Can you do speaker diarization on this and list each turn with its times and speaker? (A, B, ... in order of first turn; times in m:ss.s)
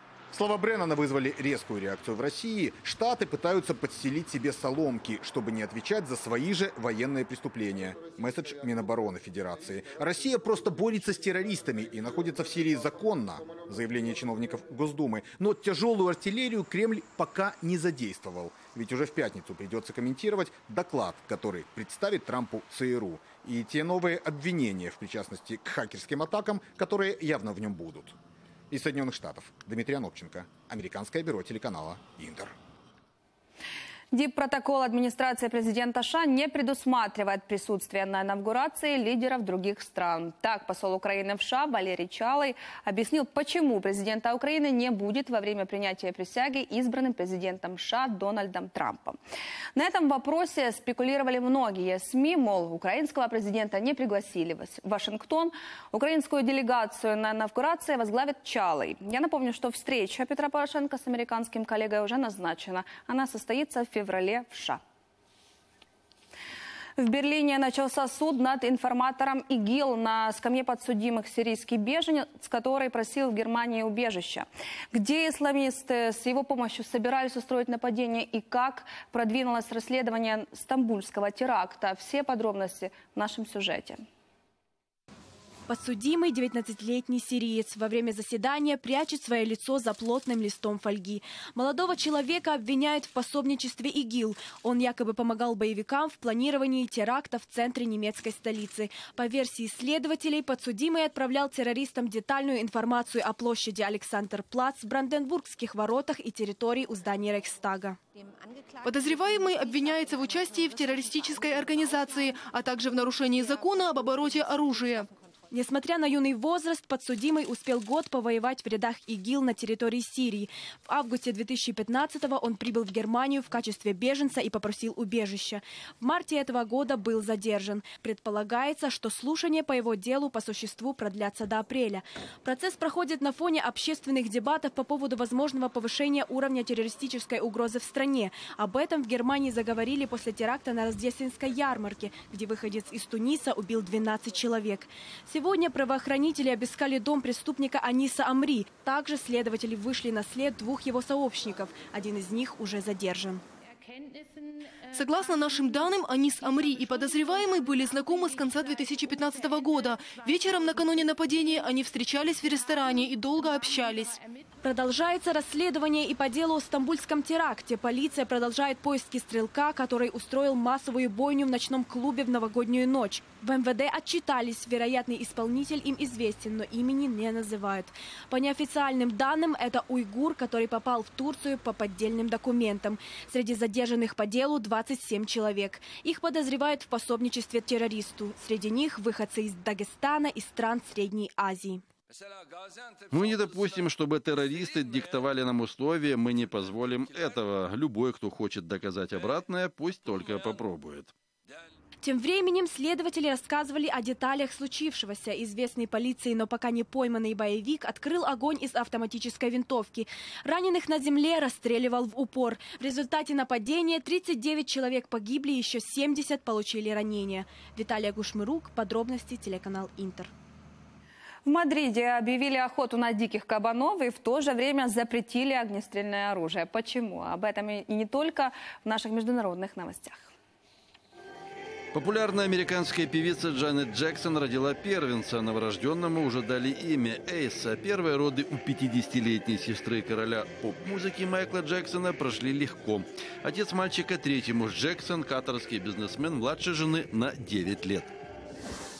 0:00.3-0:28.2 A
0:28.7-0:32.5 A
0:34.1-0:49.2 B
0:49.8-1:04.8 B
1:07.0-1:24.0 B
1:25.7-1:48.0 C
1:48.8-1:55.1 D
1:55.5-2:33.4 C
2:34.9-2:44.2 D
2:44.6-3:11.8 C
3:13.1-3:21.1 E
3:22.0-3:40.3 C
3:41.5-3:50.3 B
3:51.9-4:08.1 E